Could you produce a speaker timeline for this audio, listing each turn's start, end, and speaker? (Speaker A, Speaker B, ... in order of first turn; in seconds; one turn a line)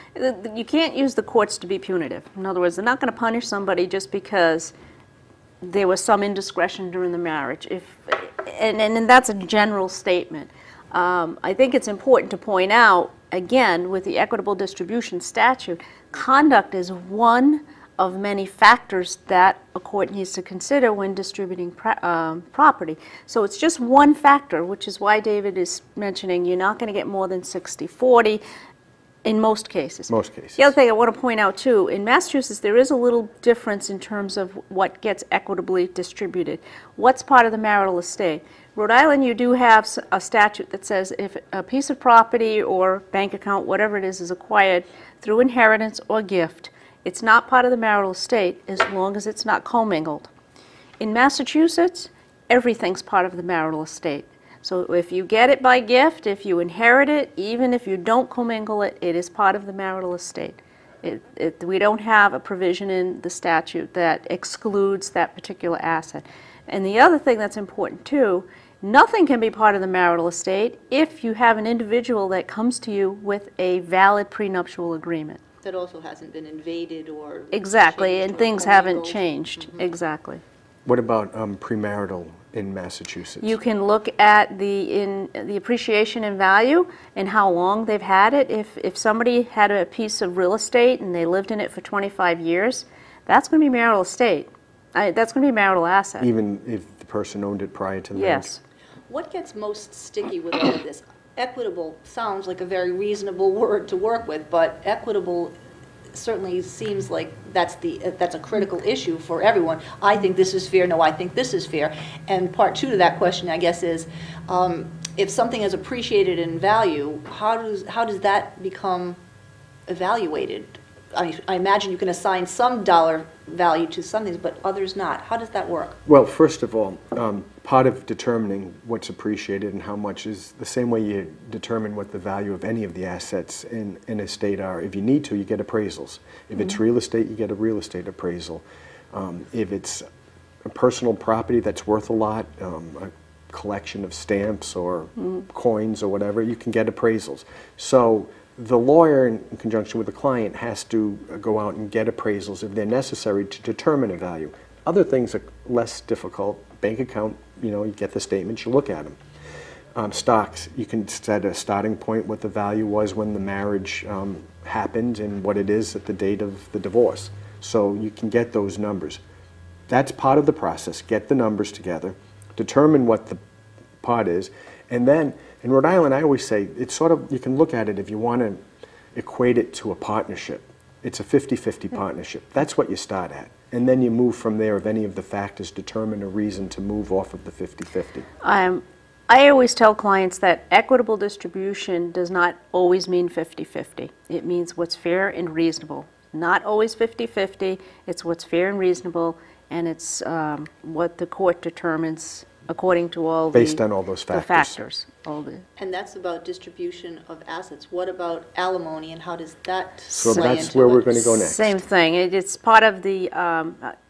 Speaker A: 0.1-4.7
Speaker A: 5.6-28.4
Speaker A: 29.2-50.3
Speaker B: 30.1-30.7
Speaker A: 51.0-75.4
Speaker C: 75.6-79.9
Speaker A: 77.5-80.4
Speaker B: 80.9-83.6
Speaker A: 83.4-96.3
Speaker B: 96.2-98.5
Speaker A: 98.1-98.6
Speaker C: 99.1-105.5
Speaker C: 106.1-119.2
Speaker C: 119.9-126.0
Speaker B: 126.1-140.0
Speaker B: 140.7-159.2
Speaker B: 160.0-169.2
Speaker B: 169.9-173.4
Speaker B: 174.0-178.6
Speaker B: 179.1-188.3
Speaker A: 188.4-205.7
Speaker B: 203.5-204.8
Speaker C: 205.8-211.2
Speaker B: 210.1-211.8
Speaker A: 210.2-213.9